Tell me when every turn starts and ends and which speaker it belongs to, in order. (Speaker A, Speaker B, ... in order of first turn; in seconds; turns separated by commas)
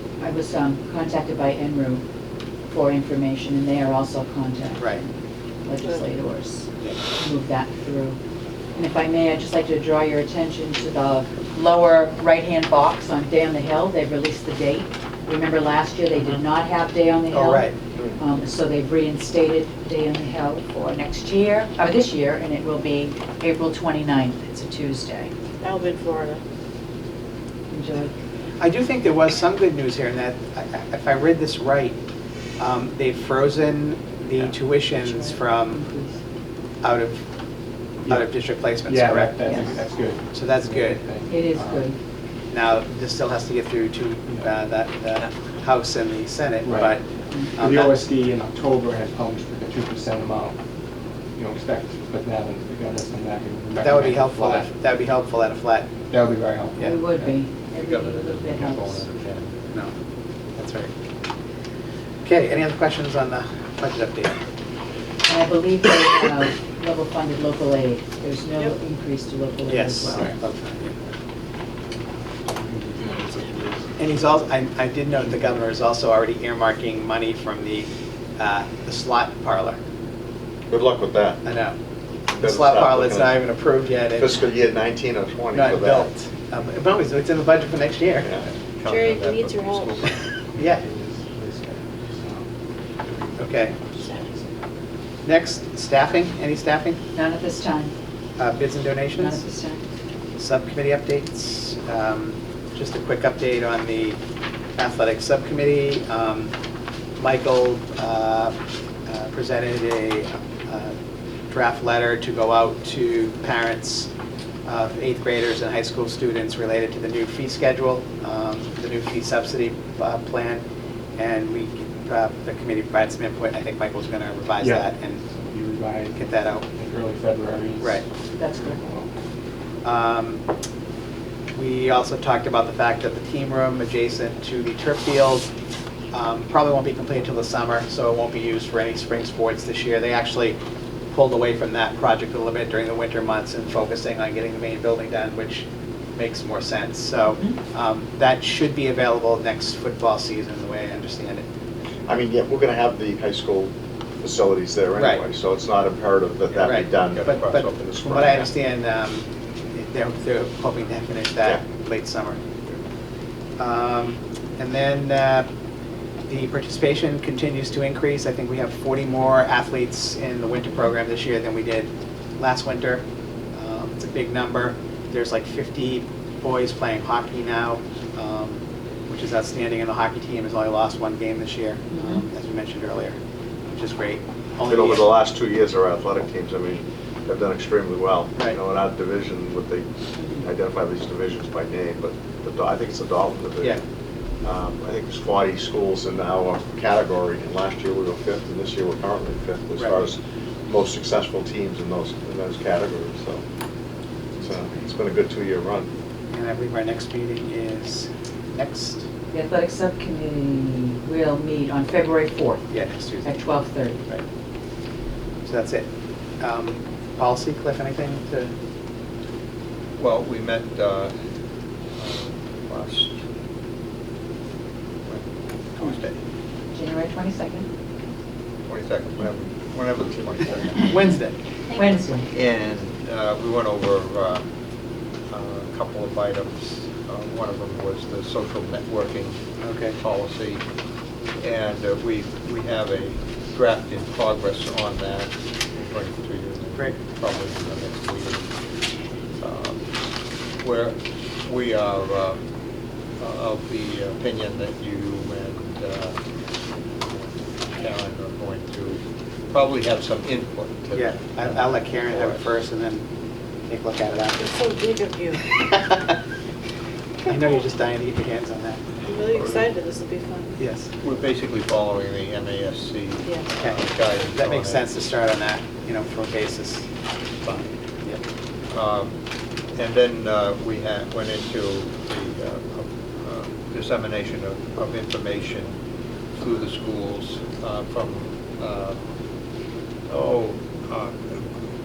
Speaker A: 0.2-2.0, Speaker A: 2.7-5.1, Speaker A: 5.6-8.2, Speaker A: 8.7-25.3, Speaker B: 17.3-17.8, Speaker C: 25.6-26.4, Speaker A: 27.7-28.1, Speaker B: 28.6-32.0, Speaker B: 32.6-35.8, Speaker A: 34.9-36.2, Speaker B: 36.8-37.2, Speaker D: 38.0-41.9, Speaker B: 38.0-39.8, Speaker A: 39.5-39.7, Speaker B: 40.3-41.0, Speaker A: 41.3-42.0, Speaker B: 42.5-47.0, Speaker D: 46.6-47.0, Speaker B: 47.5-48.0, Speaker D: 47.5-50.6, Speaker D: 51.4-54.7, Speaker B: 53.8-55.9, Speaker D: 56.1-56.9, Speaker A: 56.8-59.1, Speaker E: 57.2-59.7, Speaker B: 60.6-60.9, Speaker B: 62.2-64.4, Speaker A: 65.2-70.3, Speaker B: 69.7-71.0, Speaker D: 72.3-74.1, Speaker B: 74.0-79.8, Speaker F: 80.7-81.4, Speaker B: 81.4-81.8, Speaker B: 82.3-84.4, Speaker F: 82.3-83.4, Speaker F: 84.2-86.1, Speaker B: 85.5-88.3, Speaker E: 88.4-90.2, Speaker C: 88.9-89.9, Speaker B: 90.5-90.8, Speaker D: 90.6-94.5, Speaker B: 93.4-93.8, Speaker B: 95.2-97.0, Speaker A: 97.1-97.9, Speaker B: 98.4-99.4, Speaker A: 99.1-99.8, Speaker B: 100.4-104.2, Speaker B: 104.8-106.5, Speaker B: 107.2-108.5, Speaker B: 109.1-111.0, Speaker B: 111.5-114.1, Speaker B: 114.7-120.6, Speaker B: 121.2-125.2, Speaker D: 124.6-129.1, Speaker B: 126.2-126.7, Speaker A: 128.4-128.8, Speaker B: 129.8-130.4, Speaker B: 131.5-135.5, Speaker B: 136.1-140.6, Speaker B: 141.1-151.4, Speaker A: 147.3-147.6, Speaker F: 152.1-158.4, Speaker B: 155.0-155.2, Speaker E: 156.5-158.5, Speaker B: 156.6-162.4, Speaker B: 163.6-165.5, Speaker B: 166.3-183.2, Speaker A: 181.9-182.2, Speaker B: 183.7-185.1, Speaker F: 184.7-193.8, Speaker F: 194.4-203.4, Speaker F: 204.4-205.9, Speaker B: 206.3-209.1, Speaker A: 209.3-214.1, Speaker B: 212.7-213.3, Speaker B: 213.9-214.2, Speaker B: 215.4-215.9, Speaker B: 216.4-218.5, Speaker E: 220.0-221.1, Speaker E: 221.9-223.2, Speaker E: 225.0-226.2, Speaker A: 226.7-227.7, Speaker E: 228.6-231.0, Speaker B: 230.9-231.3, Speaker A: 231.7-232.3, Speaker E: 232.3-234.4, Speaker E: 235.3-239.4, Speaker B: 239.6-240.0, Speaker E: 239.9-240.6, Speaker E: 241.4-248.5, Speaker E: 249.3-249.8, Speaker E: 250.6-252.4, Speaker E: 253.2-256.2, Speaker E: 257.0-262.5, Speaker B: 260.9-263.0, Speaker B: 263.7-264.4, Speaker C: 264.4-265.5, Speaker B: 265.5-266.1, Speaker B: 267.2-268.8, Speaker C: 269.0-270.6, Speaker B: 270.6-270.9, Speaker E: 271.0-274.9, Speaker B: 274.3-276.9, Speaker E: 277.4-277.7, Speaker E: 278.7-279.2, Speaker E: 279.8-285.8, Speaker E: 286.4-289.0, Speaker E: 290.1-291.6